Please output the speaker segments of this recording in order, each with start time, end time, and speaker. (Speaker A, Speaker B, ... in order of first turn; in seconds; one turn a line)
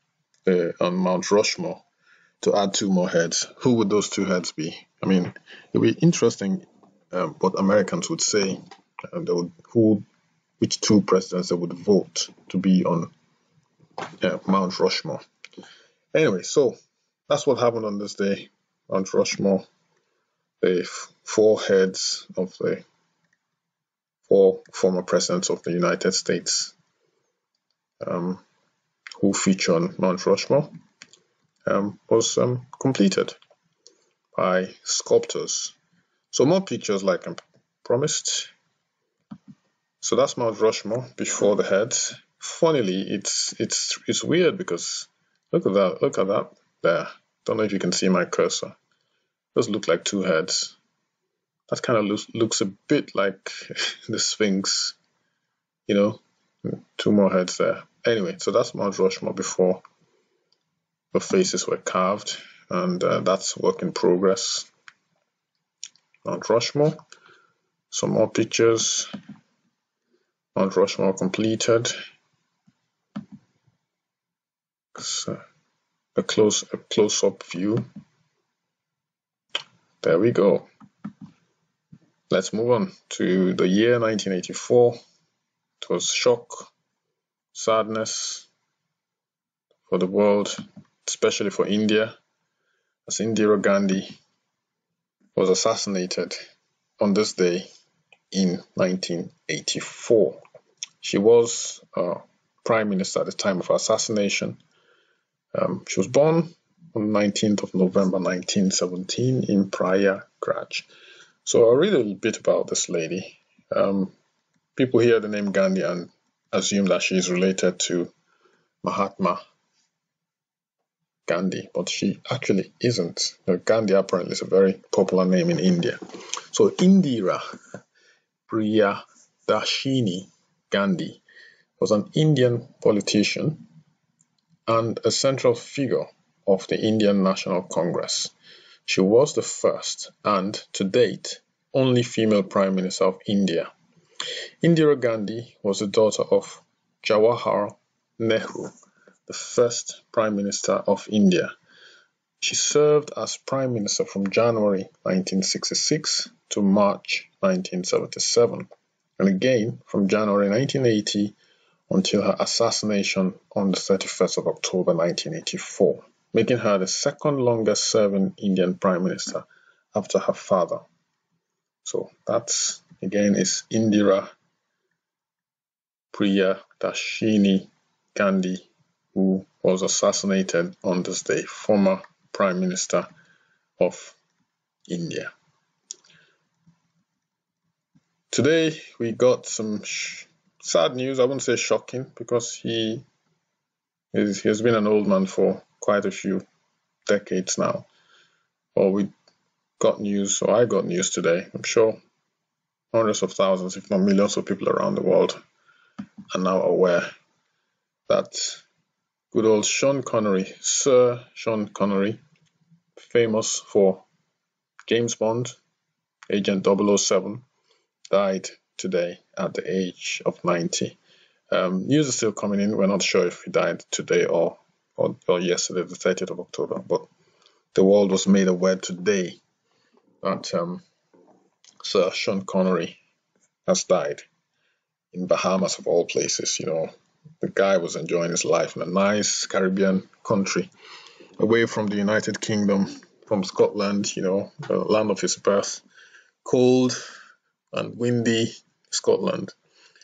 Speaker A: 0.5-1.8
Speaker A: 2.4-10.0
Speaker A: 10.6-13.1
Speaker A: 14.2-15.2
Speaker A: 16.1-16.8
Speaker A: 17.3-19.6
Speaker A: 20.6-22.8
Speaker A: 24.3-26.7
Speaker A: 28.0-28.4
Speaker A: 29.2-30.7
Speaker A: 31.6-33.4
Speaker A: 34.3-35.7
Speaker A: 36.3-38.5
Speaker A: 40.0-48.7
Speaker A: 49.5-50.7
Speaker A: 51.7-55.0
Speaker A: 55.9-59.8
Speaker A: 61.1-64.7
Speaker A: 66.2-67.0
Speaker A: 67.9-69.1
Speaker A: 70.5-71.9
Speaker A: 74.9-75.4
Speaker A: 76.1-77.9
Speaker A: 80.0-80.7
Speaker A: 82.3-85.0
Speaker A: 85.8-86.7
Speaker A: 87.5-88.5
Speaker A: 89.9-92.2
Speaker A: 93.0-94.1
Speaker A: 95.3-96.4
Speaker A: 97.0-97.7
Speaker A: 98.3-100.4
Speaker A: 101.0-104.6
Speaker A: 105.5-110.9
Speaker A: 111.4-114.1
Speaker A: 114.8-118.1
Speaker A: 118.8-119.4
Speaker A: 121.3-126.0
Speaker A: 126.5-127.4
Speaker A: 128.5-131.2
Speaker A: 131.8-133.6
Speaker A: 134.7-138.3
Speaker A: 138.8-143.7
Speaker A: 144.6-148.7
Speaker A: 149.3-151.5
Speaker A: 152.4-158.7
Speaker A: 159.2-161.3
Speaker A: 161.9-170.8
Speaker A: 171.8-174.3
Speaker A: 176.1-183.1
Speaker A: 183.8-184.2
Speaker A: 184.9-185.3
Speaker A: 188.3-193.0
Speaker A: 194.1-196.4
Speaker A: 197.1-197.9
Speaker A: 198.7-199.1
Speaker A: 199.8-202.0
Speaker A: 202.9-205.4
Speaker A: 206.3-207.1
Speaker A: 208.1-208.6
Speaker A: 209.3-212.2
Speaker A: 213.0-214.0
Speaker A: 214.9-215.6
Speaker A: 216.3-217.4
Speaker A: 218.1-221.0
Speaker A: 221.5-227.1
Speaker A: 227.7-229.4
Speaker A: 230.2-230.8
Speaker A: 231.8-233.0
Speaker A: 233.7-234.2
Speaker A: 235.1-236.9
Speaker A: 237.4-240.7
Speaker A: 241.4-245.8
Speaker A: 246.4-247.0
Speaker A: 247.7-249.5